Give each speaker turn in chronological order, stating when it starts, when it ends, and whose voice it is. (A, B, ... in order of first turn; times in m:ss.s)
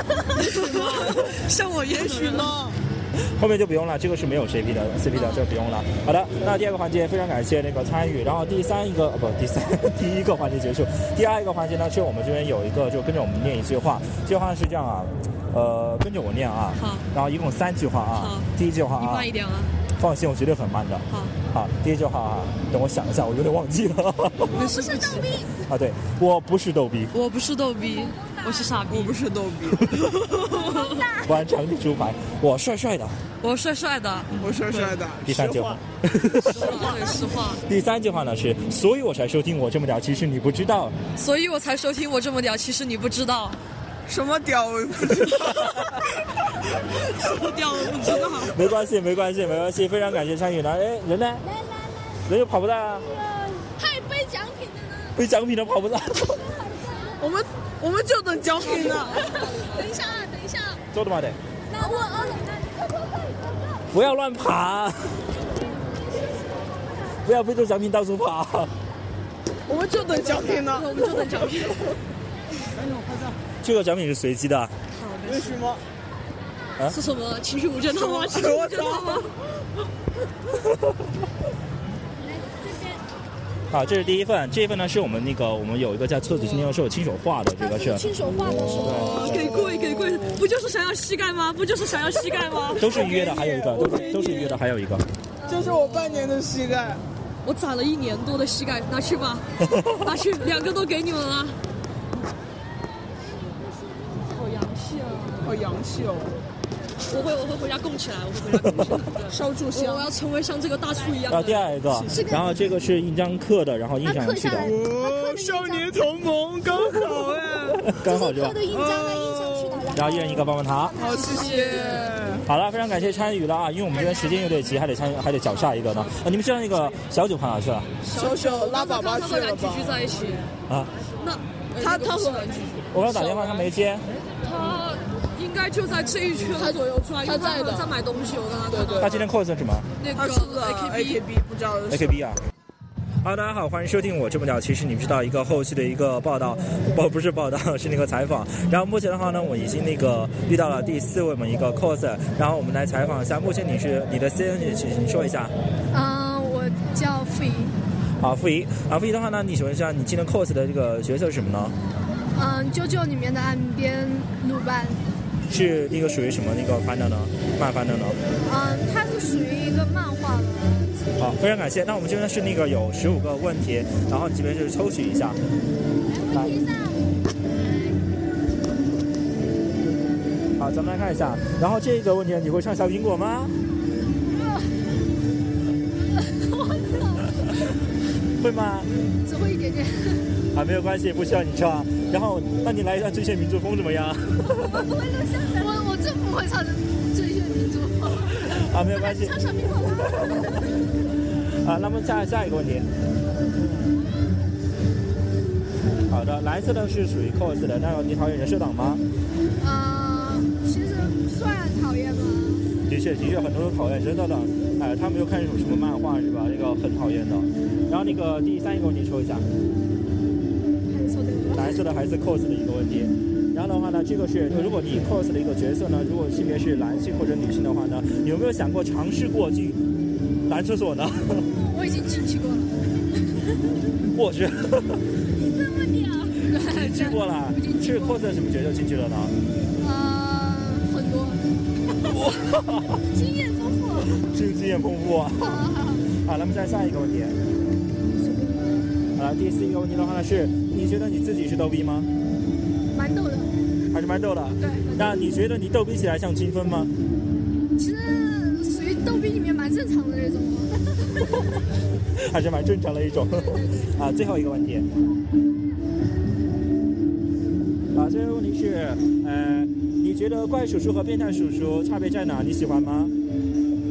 0:00.3-0:02.5 A
0:00.4-0:01.4 B
0:01.9-0:02.8 B
0:03.3-0:19.3 C
0:05.1-0:05.4 A
0:16.8-0:17.1 A
0:18.2-0:19.7 A
0:20.0-0:24.6 C
0:21.1-0:21.4 A
0:24.5-0:25.4 A
0:24.7-0:25.5 D
0:25.7-0:27.1 C
0:27.1-0:29.2 A
0:28.9-0:30.4 B
0:30.3-0:31.1 A
0:30.6-0:31.1 D
0:31.2-0:33.2 C
0:33.4-0:35.0 A
0:34.4-0:35.8 B
0:35.2-0:36.7 C
0:36.4-0:37.6 A
0:36.6-0:36.9 B
0:37.7-0:41.0 C
0:41.2-0:43.6 A
0:44.1-0:45.7 B
0:47.2-0:48.6 A
0:47.3-0:48.5 B
0:48.4-0:51.4 C
0:52.3-0:53.1 C
0:53.7-0:55.2 D
0:55.2-0:56.4 C
0:57.2-0:59.2 B
0:58.6-1:00.8 D
1:00.9-1:01.4 C
1:01.7-1:02.7 D
1:03.9-1:05.2 C
1:07.2-1:08.7 C
1:09.7-1:11.0 B
1:10.1-1:11.9 A
1:13.6-1:14.7 C
1:14.9-1:15.6 A
1:15.2-1:15.8 B
1:16.9-1:19.3 A
1:17.9-1:19.3 B
1:23.7-1:28.1 C
1:27.6-1:29.3 D
1:28.8-1:29.6 C
1:28.8-1:33.1 A
1:29.0-1:30.3 B
1:32.7-1:34.6 B
1:32.8-1:35.0 C
1:35.5-1:37.0 B
1:35.6-1:36.4 A
1:37.4-1:41.6 A
1:39.7-1:40.0 C
1:44.4-1:45.5 A
1:45.4-1:46.4 B
1:47.1-1:51.8 A
1:49.3-1:50.1 B
1:51.3-1:54.7 C
1:51.9-1:52.2 B
1:52.1-1:52.5 D
1:54.0-1:55.9 D
1:54.6-1:57.9 B
1:57.9-1:58.6 C
1:58.0-2:02.1 D
1:58.6-1:59.9 B
1:59.9-2:01.0 C
2:01.0-2:02.4 B
2:01.1-2:02.1 A
2:02.5-2:07.9 C
2:08.1-2:10.5 A
2:08.1-2:10.0 B
2:11.2-2:13.7 A
2:11.8-2:12.7 B
2:12.9-2:14.0 C
2:14.4-2:19.3 A
2:16.5-2:17.9 B
2:18.7-2:19.2 B
2:19.0-2:19.9 C
2:20.0-2:21.2 A
2:20.2-2:22.2 B
2:21.9-2:22.4 C
2:23.2-2:35.5 C
2:35.9-2:37.8 D
2:38.2-2:41.8 C
2:42.3-2:45.0 D
2:45.5-2:48.2 C
2:48.4-2:51.0 D
2:51.2-2:55.4 C
2:56.3-2:56.6 C
2:56.5-2:56.8 D
3:00.6-3:03.6 C
3:04.3-3:04.7 D
3:06.2-3:07.3 D
3:08.4-3:08.9 C
3:09.2-3:10.3 D
3:10.5-3:14.8 C
3:15.1-3:20.6 D
3:18.5-3:19.4 C
3:21.6-3:22.9 C
3:26.1-3:29.0 C
3:29.6-3:32.7 D
3:32.9-3:39.5 C
3:40.9-3:41.8 D
3:41.5-3:49.8 C
3:50.5-3:51.5 C
3:51.5-3:52.7 D
3:54.1-3:55.0 C
3:55.5-3:58.2 D
3:56.6-3:59.3 C
3:59.8-4:01.4 D
4:02.1-4:03.0 C
4:03.1-4:04.1 D
4:04.2-4:05.6 C
4:05.4-4:06.0 D
4:06.2-4:07.4 C
4:08.2-4:08.8 D
4:09.2-4:12.1 C
4:12.9-4:13.5 D
4:13.9-4:16.9 C
4:14.6-4:15.3 D
4:17.8-4:20.8 D
4:22.2-4:24.9 C
4:23.3-4:23.9 D
4:28.0-4:33.1 C